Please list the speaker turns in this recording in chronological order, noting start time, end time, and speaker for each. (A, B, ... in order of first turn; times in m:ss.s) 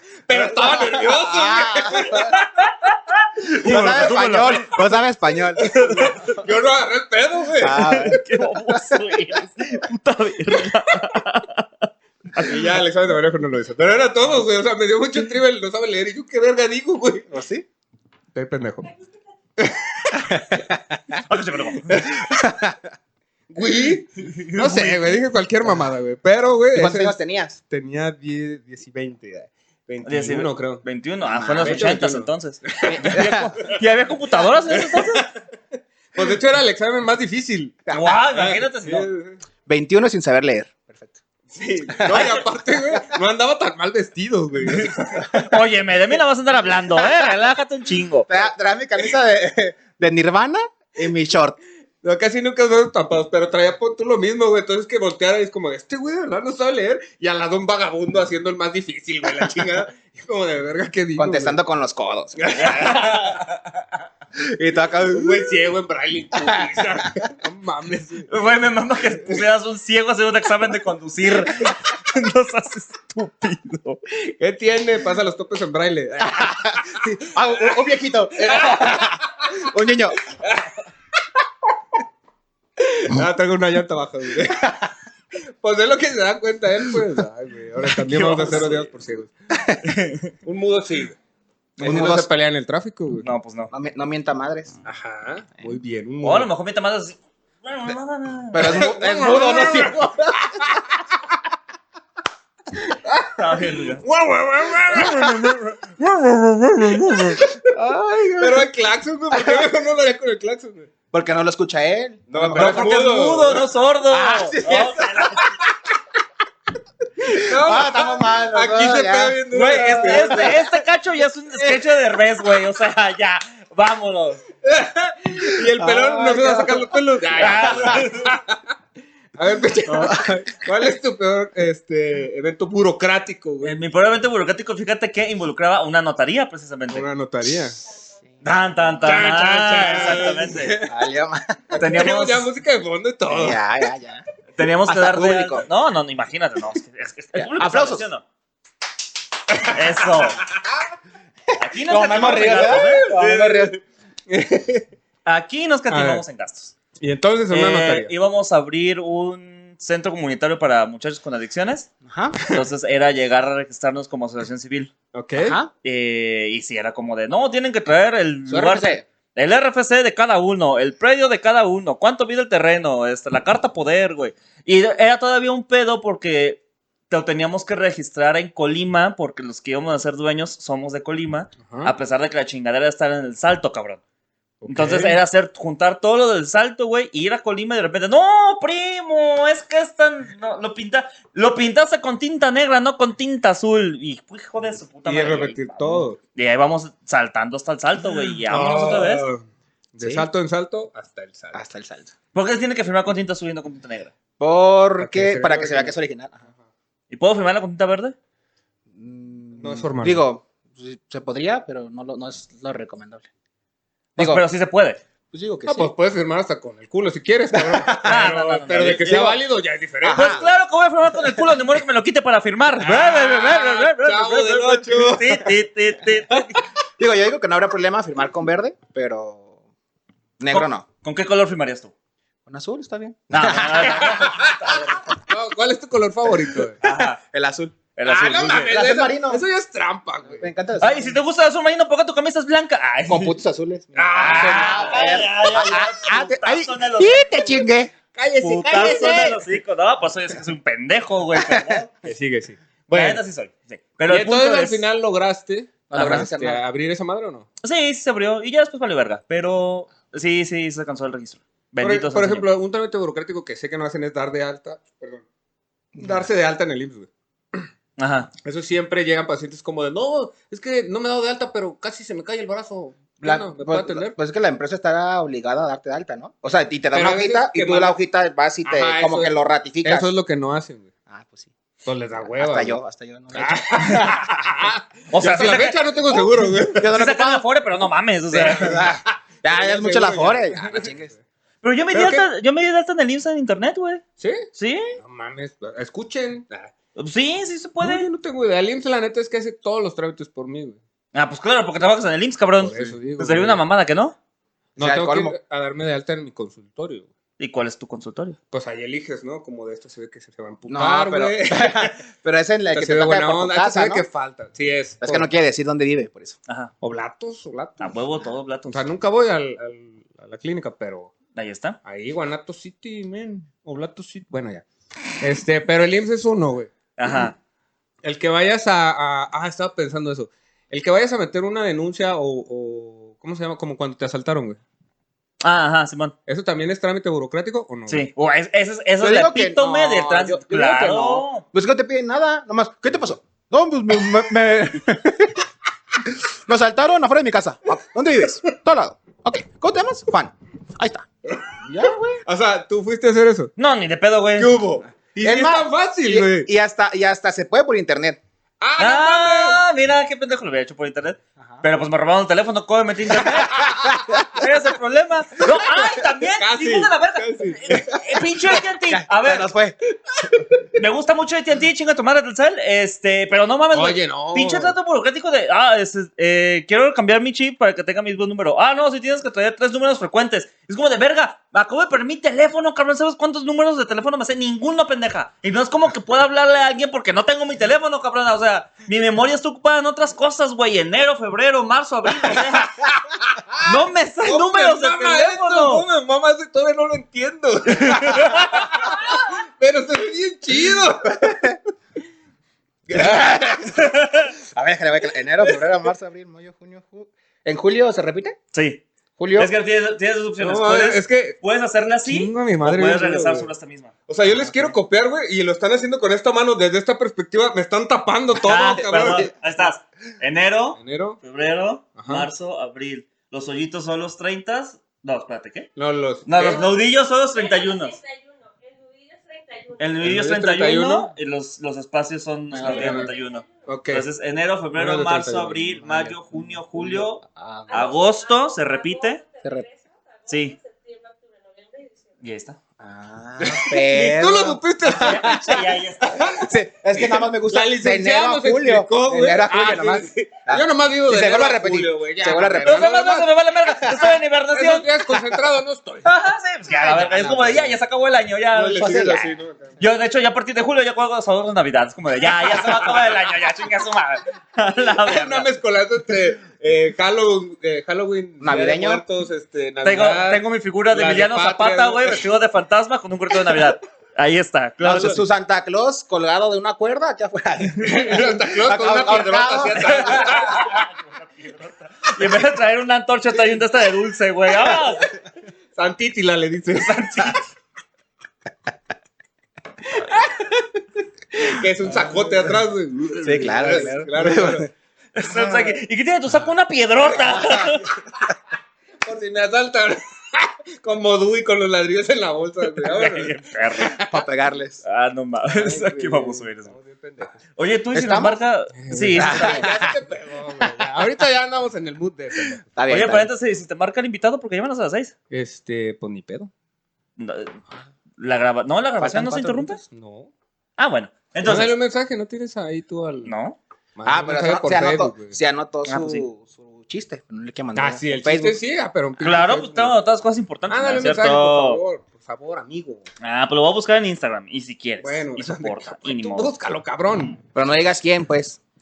0:00.3-0:02.4 A
0:00.3-0:02.4 B
0:03.4-0:04.7 C
0:03.5-0:06.3 B
0:03.7-0:04.2 A
0:05.6-0:08.2 A
0:05.6-0:06.3 C
0:07.6-0:09.0 B
0:07.7-0:12.7 C
0:12.4-0:17.3 A
0:17.3-0:17.6 B
0:18.3-0:18.9 A
0:19.6-0:20.6 A
0:20.3-0:21.0 B
0:21.3-0:22.0 C
0:21.9-0:22.8 B
0:21.9-0:22.2 A
0:23.5-0:27.2 A
0:24.3-0:25.1 C
0:26.7-0:27.6 B
0:27.7-0:30.8 A
0:30.0-0:35.3 C
0:31.2-0:31.9 B
0:31.6-0:33.8 A
0:32.8-0:33.7 B
0:34.6-0:35.4 A
0:36.1-0:39.4 A
0:37.9-0:39.1 C
0:39.7-0:41.2 B
0:41.5-0:45.3 A
0:41.9-0:42.4 B
0:45.2-0:45.6 B
0:45.3-0:48.3 C
0:48.3-0:51.6 B
0:52.0-1:01.6 A
1:01.2-1:03.0 B
1:02.3-1:03.4 A
1:02.5-1:03.6 C
1:04.4-1:05.5 B
1:05.0-1:08.3 A
1:06.4-1:07.3 B
1:08.3-1:14.0 C
1:14.2-1:17.0 A
1:16.2-1:20.3 B
1:18.3-1:19.5 A
1:20.2-1:20.8 A
1:22.8-1:24.8 A
1:24.6-1:24.9 B
1:25.3-1:29.3 A
1:28.0-1:28.9 C
1:29.8-1:30.3 C
1:30.4-1:31.2 A
1:31.8-1:33.3 A
1:31.8-1:32.3 B
1:33.2-1:33.7 C
1:33.7-1:34.8 B
1:34.8-1:36.5 A
1:36.2-1:38.9 C
1:38.5-1:40.6 B
1:38.6-1:41.4 A
1:42.8-1:47.6 A
1:43.4-1:44.0 C
1:47.7-1:48.7 B
1:48.4-1:50.9 A
1:49.3-1:49.6 B
1:51.1-1:53.0 B
1:52.3-1:53.6 A
1:52.5-1:55.5 C
1:54.1-1:55.5 B
1:57.2-2:00.6 B
1:57.2-2:00.6 A
1:59.5-2:04.4 C
2:04.6-2:08.7 A
2:05.7-2:08.0 B
2:07.4-2:08.3 C
2:09.4-2:13.8 A
2:09.9-2:10.6 B
2:13.6-2:17.1 C
2:16.9-2:17.8 A
2:18.4-2:20.8 C
2:19.0-2:21.1 A
2:20.8-2:21.6 B
2:21.7-2:23.6 A
2:21.8-2:22.5 C
2:23.3-2:24.2 B
2:24.6-2:28.2 C
2:24.9-2:25.7 B
2:27.4-2:28.0 B
2:29.6-2:30.4 C
2:30.2-2:30.8 A
2:31.6-2:33.6 C
2:31.8-2:33.8 B
2:32.4-2:33.6 A
2:34.3-2:34.9 A
2:35.2-2:36.7 C
2:35.9-2:36.2 A
2:37.0-2:38.1 A
2:37.5-2:41.9 C
2:42.0-2:42.4 B
2:42.4-2:44.9 C
2:45.1-2:45.6 A
2:45.4-2:45.7 B
2:45.8-3:04.0 C
2:48.5-2:49.0 B
3:01.6-3:01.9 A
3:04.6-3:05.2 A
3:04.7-3:19.3 C
3:15.0-3:16.2 A
3:18.4-3:21.6 A
3:20.0-3:20.2 B
3:21.5-3:22.1 B
3:22.3-3:24.1 C
3:24.4-3:26.4 B
3:25.0-3:26.0 A
3:27.1-3:28.1 C
3:28.9-3:33.3 B
3:29.6-3:30.2 A
3:34.2-3:34.4 B
3:34.2-3:35.0 C
3:35.3-3:35.9 B
3:35.6-3:40.4 A
3:37.5-3:38.2 B
3:38.0-3:39.3 C
3:39.0-3:39.4 B
3:40.0-3:40.5 B
3:40.1-3:46.6 C
3:42.8-3:45.5 A
3:47.0-3:49.5 B
3:50.4-3:50.8 B
3:50.5-3:51.9 C
3:52.5-3:55.0 B
3:53.3-3:55.0 C
3:53.8-3:56.8 A
3:56.8-3:59.4 B
3:56.8-3:57.2 C
3:58.0-3:58.7 C
3:58.0-4:00.5 A
4:00.3-4:01.2 B
4:00.8-4:03.4 C
4:03.1-4:07.9 B
4:03.9-4:05.3 A
4:04.2-4:07.6 C
4:08.1-4:09.5 A
4:08.4-4:11.9 C
4:08.7-4:09.1 B
4:11.3-4:11.8 B
4:12.0-4:13.2 A
4:12.9-4:14.8 C
4:14.0-4:17.5 A
4:15.9-4:16.6 B
4:15.9-4:16.3 C
4:17.6-4:22.5 C
4:21.8-4:25.2 A
4:26.0-4:26.2 B
4:26.0-4:27.7 A
4:28.0-4:28.3 C
4:28.4-4:34.1 A
4:33.2-4:40.1 B
4:36.9-4:38.0 A
4:38.6-4:40.9 A
4:41.1-4:41.5 B
4:41.8-4:42.8 A
4:42.2-4:44.4 B
4:43.3-4:46.9 A
4:45.1-4:45.9 C
4:46.7-4:47.4 B
4:46.8-4:48.9 C
4:48.3-4:51.1 B
4:48.4-4:51.2 A
4:51.6-4:55.0 C
4:51.9-4:52.3 A
4:54.2-4:56.7 A
4:56.9-4:58.1 C
4:57.8-5:00.8 A
5:01.1-5:04.2 C
5:02.6-5:03.6 A
5:04.8-5:07.1 A
5:04.8-5:05.3 B
5:07.4-5:08.4 C
5:08.5-5:12.0 A
5:10.7-5:14.0 B
5:12.7-5:15.3 A
5:15.0-5:16.4 B
5:16.5-5:16.7 C
5:16.8-5:18.0 A
5:17.8-5:18.8 C
5:18.7-5:21.1 A
5:21.3-5:21.8 C
5:21.8-5:24.6 A
5:25.2-5:26.7 A
5:27.0-5:27.4 C
5:28.0-5:34.6 A
5:35.4-5:36.1 C
5:36.2-5:38.1 A
5:37.9-5:41.4 C
5:39.0-5:45.4 B
5:46.0-5:51.1 B
5:51.3-5:53.5 A
5:51.6-5:52.2 B
5:53.6-5:54.6 C
5:54.4-5:56.5 A
5:55.2-5:58.2 B
5:58.6-5:59.6 A
5:58.8-6:09.5 C
6:03.4-6:04.2 A
6:03.5-6:04.3 B
6:05.5-6:08.6 A
6:08.9-6:09.8 B
6:10.7-6:32.8 C
6:13.7-6:14.8 A
6:32.3-6:41.5 A
6:33.6-6:35.8 C
6:37.8-6:38.7 C
6:41.1-6:41.6 B
6:42.9-6:48.4 B
6:42.9-6:43.2 A
6:43.8-6:44.3 C
6:48.5-6:48.8 C
6:49.2-6:49.5 B
6:49.3-6:53.9 C
6:50.4-6:51.4 A
6:52.0-6:53.5 A
6:54.1-6:59.3 A
6:58.4-7:05.7 C
7:00.8-7:01.2 A
7:02.0-7:02.3 A
7:05.8-7:06.6 A
7:06.2-7:08.0 C
7:06.4-7:10.0 D
7:09.8-7:19.2 C
7:10.0-7:11.1 A
7:12.5-7:13.7 D
7:12.5-7:12.9 B
7:12.6-7:13.1 A
7:13.6-7:14.1 A
7:14.7-7:16.2 A
7:16.3-7:17.9 B
7:17.7-7:22.2 D
7:20.3-7:20.6 C
7:22.2-7:22.6 C
7:22.8-7:25.6 B
7:23.4-7:33.3 A
7:24.9-7:26.4 C
7:26.3-7:32.9 B
7:32.6-7:34.9 C
7:34.5-7:36.0 A
7:36.0-7:39.2 C
7:36.8-7:37.7 B
7:37.1-7:37.7 A
7:38.5-7:39.8 A
7:38.7-7:39.3 B
7:39.8-7:45.5 C
7:42.6-7:42.9 A
7:45.0-7:52.3 A
7:48.4-7:49.0 B
7:49.8-7:55.2 C
7:54.8-8:00.3 B
7:57.8-8:00.8 A
7:59.8-8:05.1 C
8:05.7-8:07.4 A
8:06.8-8:07.4 C
8:10.0-8:10.6 A
8:11.3-8:14.7 A
8:13.2-8:14.7 B
8:15.1-8:17.9 C
8:19.0-8:24.2 A
8:22.9-8:24.0 C
8:24.0-8:24.8 B
8:24.8-8:26.7 C
8:25.5-8:27.4 A
8:27.5-8:29.8 C
8:27.9-8:28.4 B
8:28.7-8:32.6 A
8:29.1-8:29.9 B
8:32.7-8:33.3 B
8:32.9-8:35.1 C
8:35.3-8:36.5 A
8:37.2-8:37.6 C
8:38.2-8:39.8 C
8:39.0-8:39.8 B
8:39.8-8:40.3 A
8:40.8-8:41.7 C
8:41.4-8:43.3 A
8:43.2-8:43.6 C
8:44.0-8:45.4 A
8:44.0-8:48.6 B
8:45.8-8:46.2 C
8:47.7-8:50.0 A
8:49.2-8:51.8 C
8:50.7-8:53.0 A
8:53.2-8:56.5 C
8:55.0-8:57.4 A
8:57.5-8:58.6 B